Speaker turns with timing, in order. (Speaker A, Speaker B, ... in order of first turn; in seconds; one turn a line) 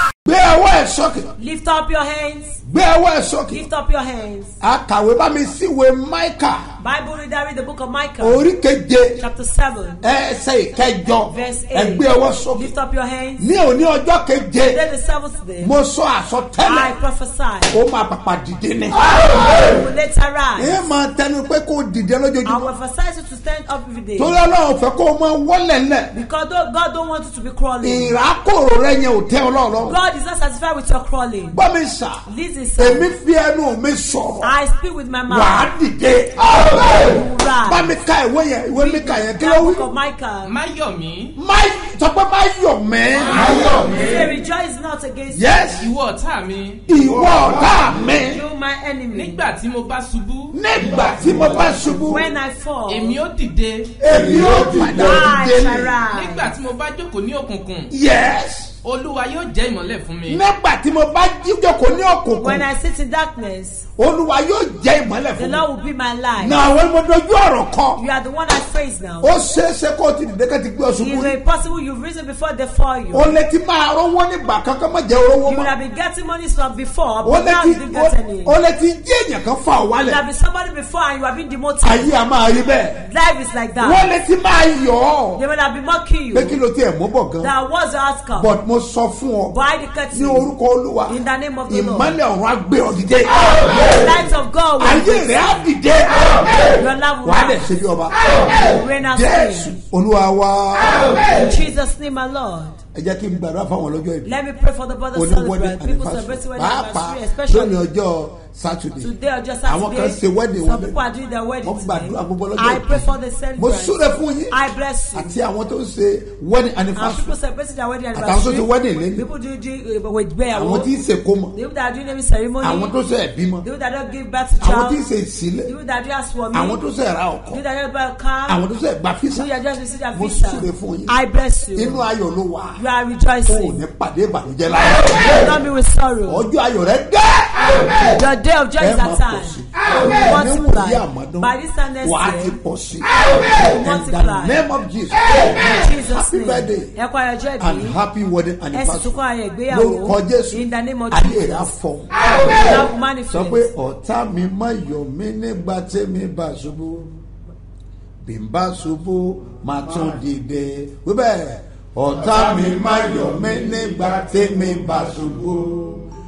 Speaker A: 0.2-1.3
Speaker B: 1.4-2.6
Speaker A: 2.6-3.6
Speaker B: 3.5-4.5
Speaker A: 4.6-6.7
Speaker B: 6.8-8.5
Speaker A: 8.2-9.2
Speaker B: 9.2-10.0
Speaker A: 10.0-12.7
Speaker B: 11.3-13.5
Speaker A: 13.4-14.8
Speaker B: 14.6-15.7
Speaker A: 15.6-16.9
Speaker B: 16.6-17.8
Speaker A: 17.7-19.4
Speaker B: 19.3-20.8
Speaker A: 20.6-22.7
Speaker B: 22.4-24.4
Speaker A: 24.2-26.1
Speaker B: 26.1-28.1
Speaker A: 27.8-30.0
Speaker B: 29.8-31.6
Speaker A: 31.5-34.5
Speaker B: 32.2-33.1
Speaker B: 34.4-35.7
Speaker A: 35.3-37.0
Speaker B: 36.8-38.0
Speaker A: 37.6-39.9
Speaker B: 38.7-40.5
Speaker C: 40.4-41.3
Speaker A: 41.3-43.9
Speaker C: 43.7-44.2
Speaker B: 43.8-45.7
Speaker A: 45.3-45.9
Speaker C: 45.7-46.8
Speaker A: 46.9-48.4
Speaker B: 48.2-49.4
Speaker C: 49.1-50.5
Speaker A: 50.5-52.3
Speaker B: 52.0-53.2
Speaker C: 52.9-54.0
Speaker A: 54.0-56.0
Speaker B: 54.7-56.5
Speaker C: 56.1-57.9
Speaker A: 57.9-58.7
Speaker C: 58.8-60.4
Speaker A: 60.3-62.7
Speaker B: 62.4-63.9
Speaker A: 64.0-65.7
Speaker B: 65.3-66.6
Speaker A: 66.4-68.0
Speaker B: 68.0-69.3
Speaker A: 69.2-71.4
Speaker B: 71.0-73.3
Speaker A: 73.1-75.7
Speaker B: 75.4-78.5
Speaker A: 77.2-80.2
Speaker B: 80.0-82.1
Speaker A: 81.8-83.0
Speaker B: 83.0-84.1
Speaker A: 83.8-85.4
Speaker B: 85.3-86.6
Speaker A: 86.3-87.5
Speaker B: 87.4-88.6
Speaker A: 88.3-89.5
Speaker B: 89.5-90.5
Speaker A: 90.1-91.2
Speaker B: 91.0-92.2
Speaker A: 91.7-94.2
Speaker B: 93.7-95.6
Speaker A: 94.8-96.7
Speaker B: 96.8-97.8
Speaker A: 97.2-101.4
Speaker B: 98.5-99.8
Speaker B: 101.3-102.8
Speaker A: 102.9-104.3
Speaker B: 104.2-107.8
Speaker A: 105.1-109.1
Speaker B: 109.0-115.4
Speaker A: 109.6-111.0
Speaker A: 111.6-114.6
Speaker A: 115.1-117.3
Speaker B: 117.0-120.9
Speaker A: 118.1-119.2
Speaker A: 120.5-121.5
Speaker B: 121.5-122.9
Speaker A: 122.6-123.7
Speaker B: 123.6-125.0
Speaker A: 124.6-125.7
Speaker B: 125.6-126.8
Speaker A: 126.5-127.6
Speaker B: 127.5-128.6
Speaker A: 128.5-129.5
Speaker B: 129.3-132.0
Speaker A: 130.1-131.2
Speaker A: 131.7-132.8
Speaker B: 132.8-133.8
Speaker A: 133.4-135.5
Speaker B: 135.3-136.5
Speaker A: 136.2-137.9
Speaker B: 138.1-142.6
Speaker A: 138.8-146.9
Speaker B: 143.6-144.6
Speaker B: 145.6-148.0
Speaker A: 147.6-157.1
Speaker B: 148.7-151.8
Speaker B: 152.4-153.7
Speaker A: 158.2-166.1